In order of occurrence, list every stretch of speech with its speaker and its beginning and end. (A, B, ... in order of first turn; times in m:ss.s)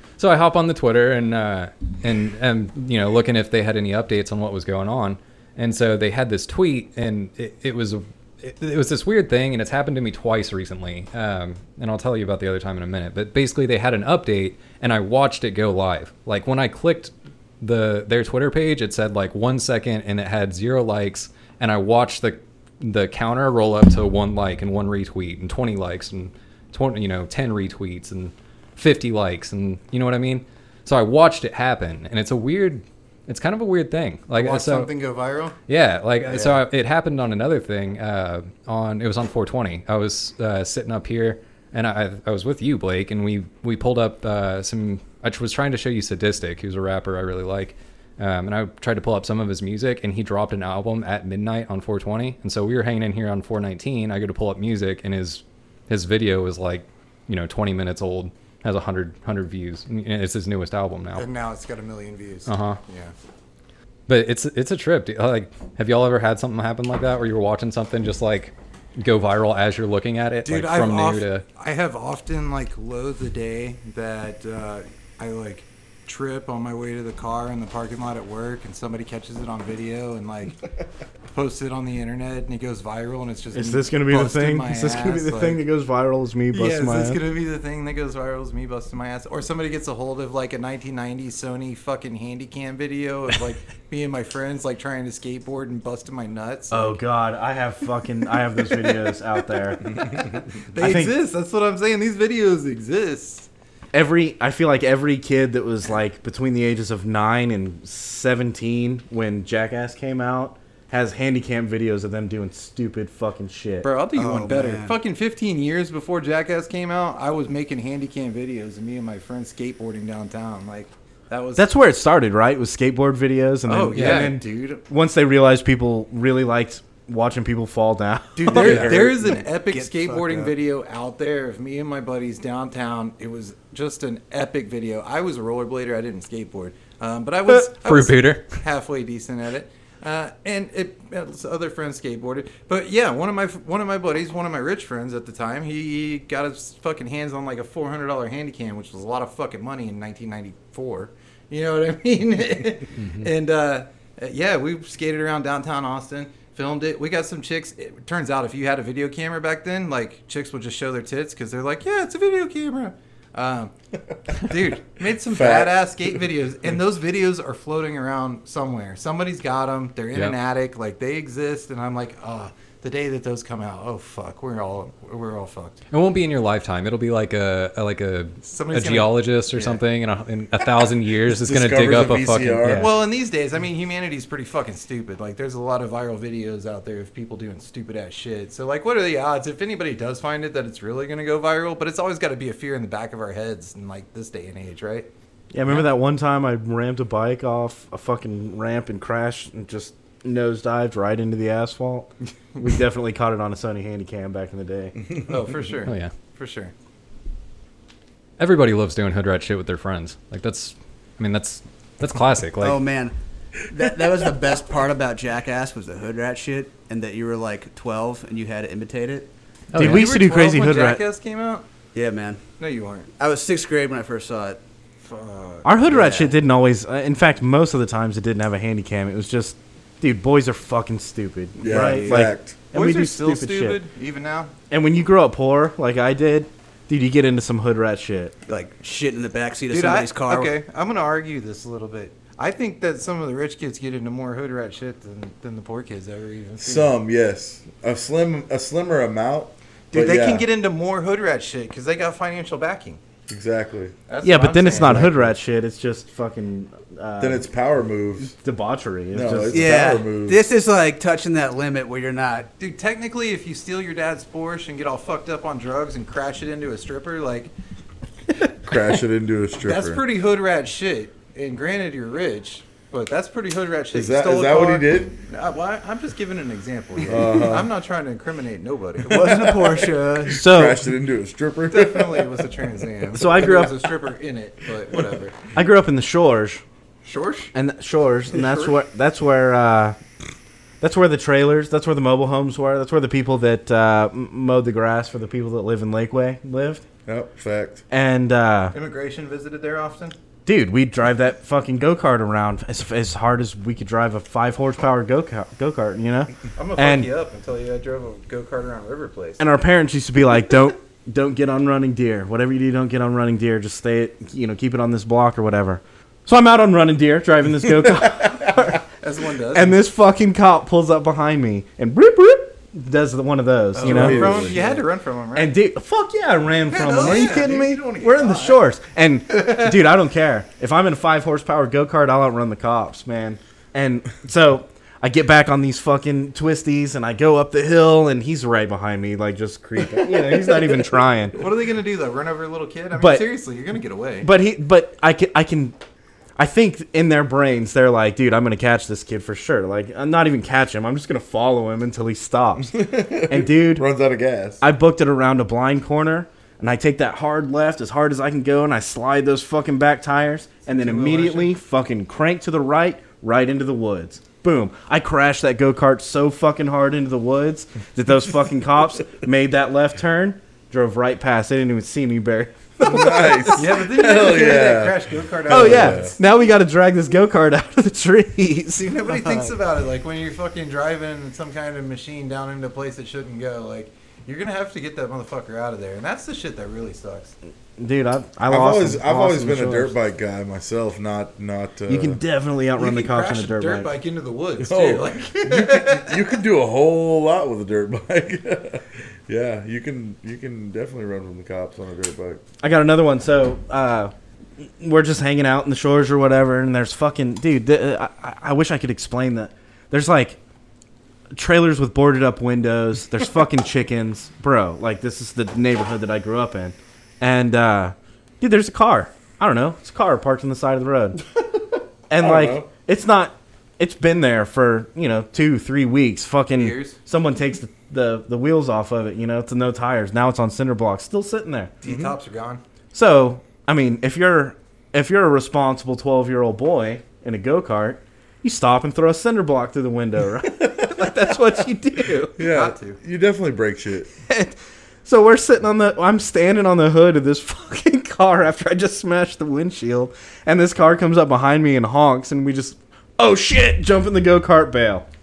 0:00.2-0:34.9 A
0:34.3-0:35.6 B
0:35.7-1:01.3 A
0:36.2-0:36.6 B
1:01.1-1:03.1 B
1:02.4-1:02.8 A
1:04.1-1:11.4 A
1:10.4-1:20.6 B
1:21.3-1:25.6 B
1:23.5-1:27.2 C
1:26.5-1:37.0 B
1:36.7-1:39.9 C
1:39.9-1:43.5 B
1:40.7-1:41.2 C
1:43.9-1:53.9 C
1:53.8-2:01.7 B
1:54.1-1:55.0 D
2:01.6-2:09.0 C
2:03.6-2:04.8 B
2:03.9-2:04.3 A
2:08.4-2:43.7 B
2:08.5-2:09.0 A
2:08.6-2:09.4 E
2:08.9-2:10.5 D
2:17.5-2:18.6 A
2:33.0-2:33.3 A
2:44.3-2:55.8 B
2:45.3-2:46.2 E
2:55.9-3:02.8 A
2:58.4-2:59.8 B
3:01.3-3:02.9 E
3:02.8-3:15.1 B
3:15.5-3:25.0 C
3:25.2-3:26.7 B
3:25.8-3:26.1 A
3:28.4-3:32.8 A
3:32.6-3:39.3 D
3:39.7-3:40.1 A
3:39.8-3:41.0 C
3:39.8-3:41.6 B
3:41.9-3:42.4 D
3:42.6-3:43.1 B
3:43.2-3:44.6 D
3:45.0-3:46.3 B
3:45.6-3:53.8 C
3:51.6-3:52.6 E
3:51.7-3:54.5 B
3:54.7-3:58.3 C
3:58.5-4:00.6 D
3:59.7-4:06.9 B
4:06.6-4:10.5 E
4:09.9-4:13.0 B
4:13.3-4:13.9 E
4:14.1-4:15.3 B
4:14.2-4:17.5 C
4:17.2-4:18.3 E
4:18.2-4:19.9 C
4:19.1-4:20.5 E
4:19.5-4:22.5 D
4:22.6-4:27.5 B
4:28.6-4:30.0 E
4:29.6-4:39.5 B
4:33.9-4:35.2 E
4:37.0-4:37.7 E
4:39.0-4:40.5 D
4:39.0-4:42.5 E
4:40.2-4:40.8 C
4:41.6-4:45.4 B
4:43.1-4:43.8 C
4:45.5-4:46.6 C
4:47.0-4:47.5 B
4:47.5-4:50.0 C
4:48.3-4:48.8 B
4:50.8-4:56.8 C
4:57.0-4:57.8 E
4:57.9-4:58.8 C
4:58.7-5:00.2 B
5:00.4-5:07.1 C
5:06.6-5:09.4 B
5:09.4-5:18.8 C
5:18.6-5:19.8 B
5:19.5-5:41.4 C
5:23.7-5:25.5 B
5:23.8-5:24.6 E
5:26.6-5:28.7 B
5:41.4-5:44.3 B
5:42.9-5:43.3 C
5:44.2-5:45.8 C
5:46.4-5:53.8 C
5:52.6-5:54.6 E
5:54.6-6:13.6 C
6:00.6-6:01.5 B
6:12.8-6:16.1 E
6:13.5-6:16.2 B
6:15.5-6:19.5 C
6:18.7-6:27.3 B
6:27.8-6:30.0 C
6:28.5-6:32.2 E
6:31.9-6:33.9 C
6:32.7-6:36.2 B
6:34.6-6:42.4 E
6:42.6-6:50.4 C
6:51.3-7:01.2 C
7:02.1-7:11.7 C
7:02.2-7:02.7 E
7:06.5-7:07.0 B
7:11.8-7:12.6 B
7:11.8-7:12.1 E
7:12.9-7:22.3 C
7:22.1-7:23.0 B
7:22.4-7:24.1 E
7:24.3-7:35.0 C